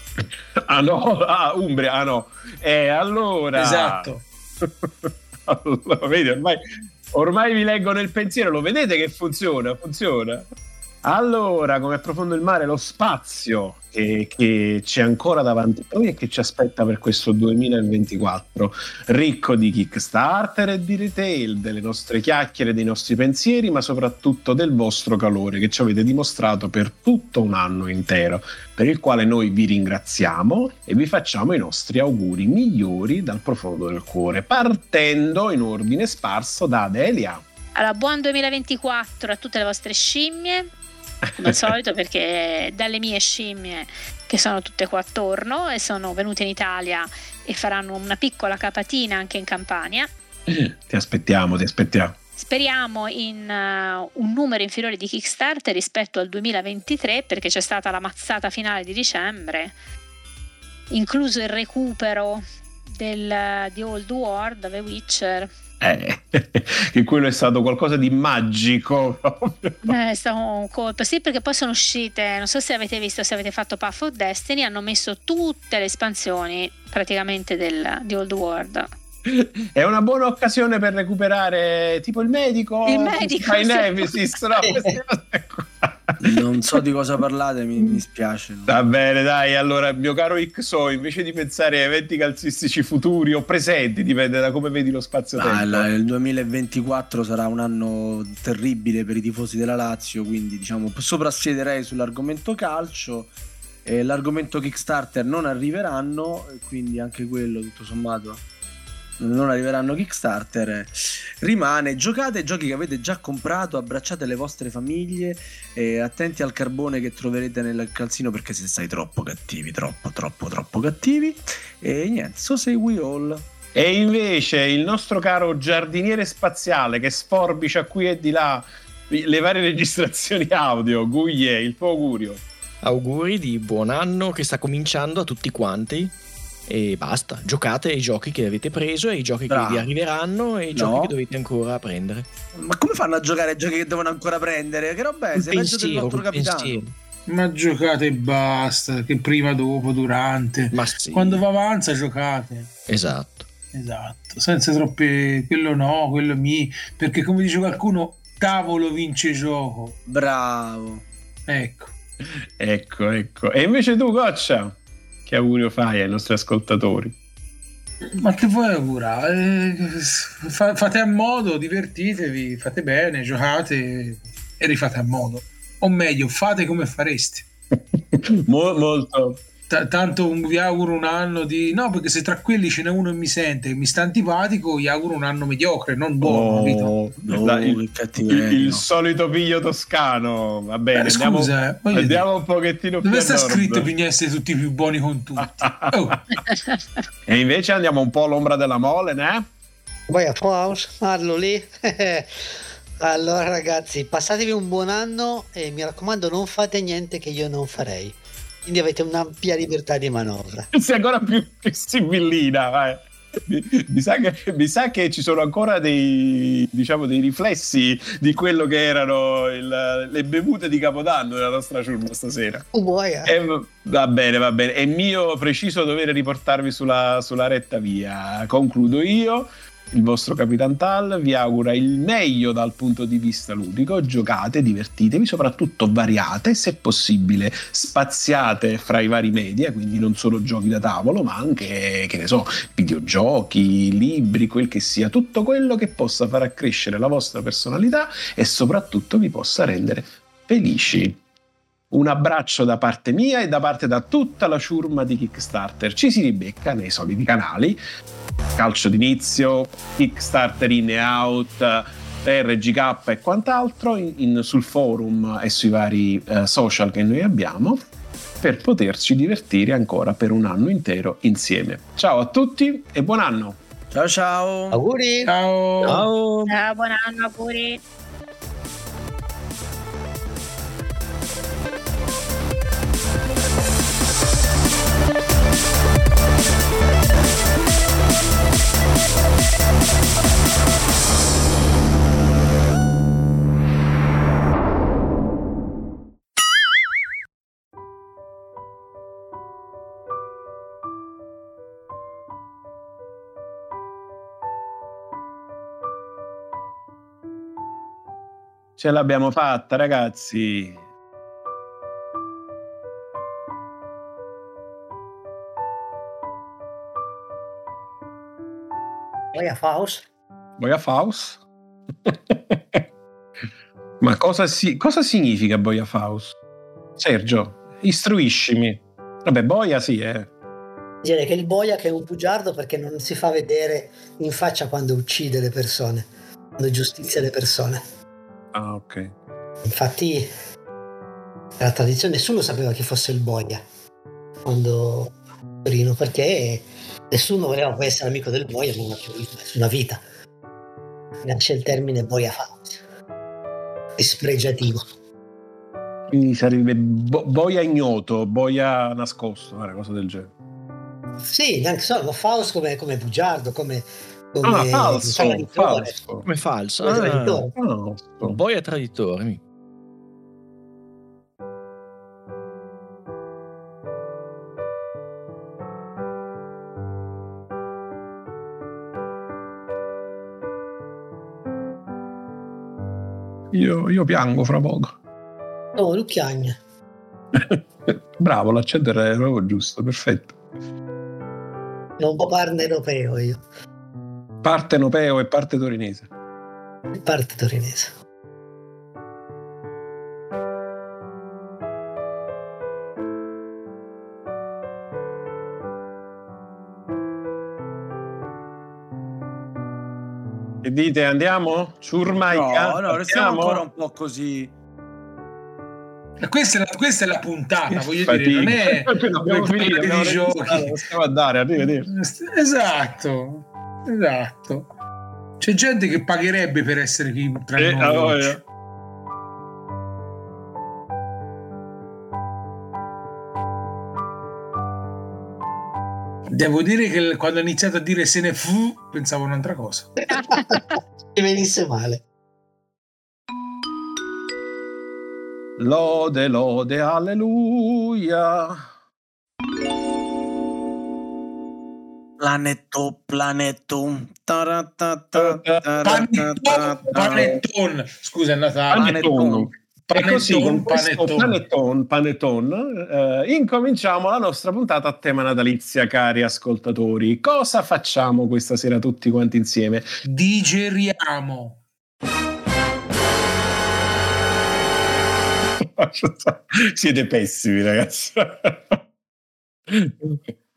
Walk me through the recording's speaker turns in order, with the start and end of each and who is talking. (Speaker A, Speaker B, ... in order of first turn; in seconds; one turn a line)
Speaker A: 0.2-4.1
Speaker B: 3.5-4.2
Speaker A: 4.6-10.4
Speaker A: 11.0-37.4
Speaker C: 37.7-40.7
Speaker C: 41.4-50.1
Speaker A: 41.4-41.7
Speaker A: 50.5-52.1
Speaker C: 52.4-59.8
Speaker C: 60.9-65.5
Speaker A: 65.8-69.9
Speaker C: 69.8-78.9
Speaker A: 79.2-86.4
Speaker C: 82.9-84.4
Speaker D: 84.6-85.0
Speaker E: 86.2-88.8
Speaker A: 88.7-95.9
Speaker E: 95.4-103.3
Speaker E: 103.8-108.4
Speaker E: 109.2-123.5
Speaker A: 123.7-132.4
Speaker F: 132.8-136.1
Speaker F: 136.7-142.2
Speaker E: 139.5-139.9
Speaker E: 140.7-141.1
Speaker E: 142.5-146.8
Speaker F: 145.3-146.9
Speaker B: 147.3-152.7
Speaker F: 150.7-151.4
Speaker F: 152.9-153.5
Speaker B: 153.7-159.9
Speaker E: 160.1-161.0
Speaker B: 161.5-161.9
Speaker A: 162.2-167.1
Speaker B: 168.2-177.4
Speaker A: 177.9-179.4
Speaker B: 179.7-186.9
Speaker A: 186.2-193.9
Speaker E: 187.2-188.8
Speaker B: 191.0-192.2
Speaker B: 193.0-196.3
Speaker A: 195.4-196.2
Speaker C: 196.3-196.8
Speaker A: 197.3-199.4
Speaker D: 200.1-202.3
Speaker D: 203.0-210.7
Speaker A: 210.7-222.6
Speaker D: 222.7-223.3
Speaker A: 223.2-251.2
Speaker A: 251.9-257.8
Speaker A: 258.5-267.8
Speaker A: 268.4-273.6
Speaker E: 273.9-274.8
Speaker D: 274.7-275.3
Speaker B: 275.2-276.1
Speaker E: 275.8-276.2
Speaker F: 275.8-276.5
Speaker C: 276.5-277.8
Speaker A: 308.8-310.8
Speaker D: 319.3-320.0
Speaker A: 320.6-321.4
Speaker A: 322.0-322.8
Speaker A: 324.0-326.4
Speaker A: 327.0-330.3
Speaker D: 331.0-337.8
Speaker A: 338.5-339.1
Speaker D: 339.7-340.3
Speaker D: 341.6-343.6
Speaker D: 344.4-350.0
Speaker D: 351.2-352.8
Speaker D: 354.0-354.8
Speaker A: 356.1-360.3
Speaker D: 361.3-366.0
Speaker A: 364.4-366.2
Speaker F: 366.2-367.5
Speaker D: 366.8-367.5
Speaker A: 366.9-368.4
Speaker F: 368.2-369.4
Speaker A: 383.5-384.9
Speaker D: 385.8-386.6
Speaker A: 387.3-390.3
Speaker D: 392.0-393.4
Speaker A: 394.4-396.1
Speaker D: 397.0-397.9
Speaker A: 410.6-413.6
Speaker E: 412.3-414.5
Speaker B: 416.2-420.8
Speaker A: 417.7-421.9
Speaker B: 421.6-424.7
Speaker B: 425.4-428.4
Speaker A: 427.6-428.4
Speaker B: 436.3-439.9
Speaker C: 440.1-440.8
Speaker D: 440.2-440.6
Speaker D: 441.1-442.0
Speaker A: 445.6-448.6
Speaker E: 452.2-457.3
Speaker A: 455.1-455.8
Speaker B: 455.8-459.1
Speaker A: 456.9-457.4
Speaker A: 458.7-469.9
Speaker E: 458.7-459.5
Speaker B: 459.9-461.4
Speaker B: 470.0-471.6
Speaker A: 475.6-478.8
Speaker A: 479.7-480.3